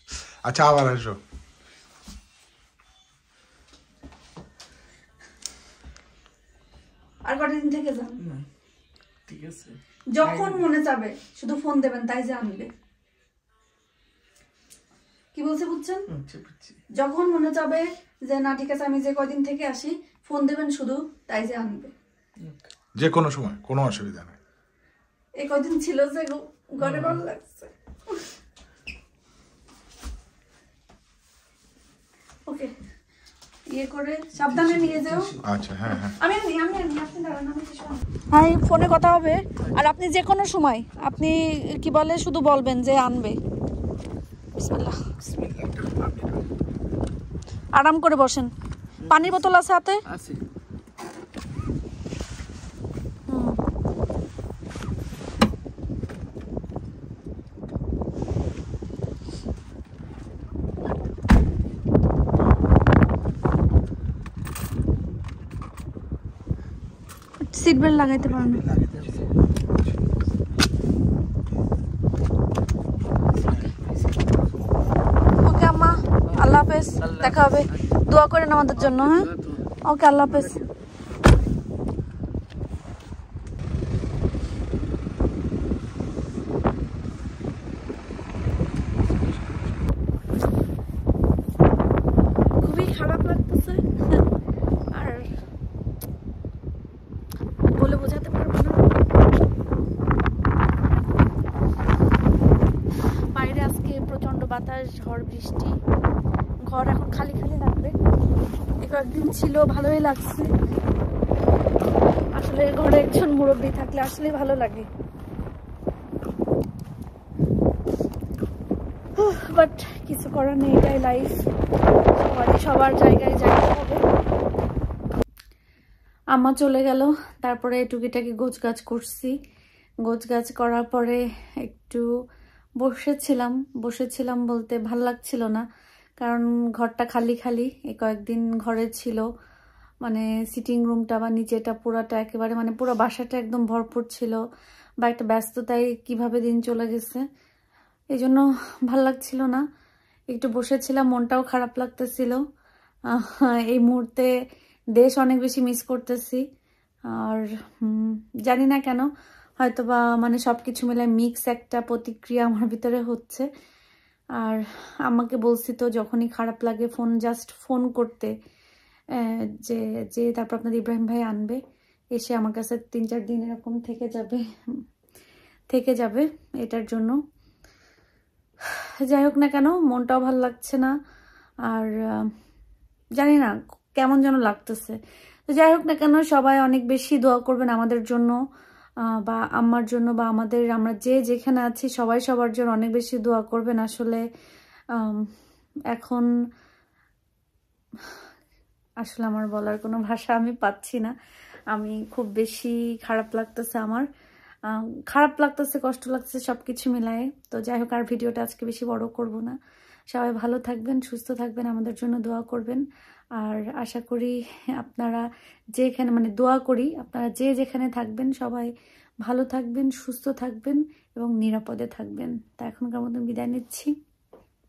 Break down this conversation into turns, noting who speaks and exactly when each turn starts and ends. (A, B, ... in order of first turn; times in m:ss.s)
0:00.4-0:01.2 A
0:07.2-0:08.2 B
0:08.2-0:08.4 C
0:09.3-0:10.6 C
0:10.1-0:12.7 B
0:15.3-0:16.1 B
0:16.1-0:16.8 C
0:17.0-0:21.9 B
0:22.4-0:22.7 C
0:23.0-0:24.4 A
0:25.4-0:27.7 B
0:26.8-0:27.2 C
0:33.7-0:35.3 B
0:34.4-0:35.4 C
0:35.4-0:36.2 A
0:36.2-0:43.4 B
0:44.6-0:45.0 B
0:45.3-0:46.1 C
0:47.8-0:48.5 B
0:49.0-0:49.5 C
0:49.1-0:50.0 B
0:50.1-0:50.4 C
0:53.3-0:53.6 B
1:07.5-1:08.6 B
1:08.2-1:10.0 A
1:08.9-1:09.3 C
1:13.2-1:14.3 C
1:15.4-1:19.3 B
1:16.3-1:18.0 C
1:18.8-1:19.7 C
1:19.8-1:20.6 B
1:20.2-1:20.7 C
1:32.6-1:34.2 B
1:34.9-1:35.3 B
1:37.6-1:38.9 B
1:43.3-1:45.8 B
1:46.7-1:48.0 B
1:48.8-1:50.5 B
1:52.3-1:54.9 B
1:59.2-2:01.4 B
2:02.2-2:04.0 B
2:06.3-2:09.3 B
2:10.0-2:12.1 B
2:12.8-2:15.6 B
2:16.2-2:19.3 B
2:20.0-2:24.4 B
2:25.0-2:27.2 B
2:28.1-2:29.6 B
2:30.3-2:32.4 B
2:33.1-2:34.3 B
2:35.0-2:36.4 B
2:37.1-2:39.1 B
2:39.6-2:43.5 B
2:44.4-2:48.3 B
2:49.2-2:51.6 B
2:52.2-2:54.4 B
2:55.7-2:57.2 B
2:59.0-3:00.9 B
3:01.7-3:02.2 B
3:03.2-3:05.0 B
3:05.5-3:08.4 B
3:09.1-3:14.2 B
3:15.0-3:15.3 B
3:15.9-3:16.3 B
3:19.0-3:21.1 B
3:21.7-3:24.1 B
3:24.7-3:29.6 B
3:30.1-3:32.8 B
3:33.4-3:35.2 B
3:35.8-3:38.7 B
3:39.2-3:43.9 B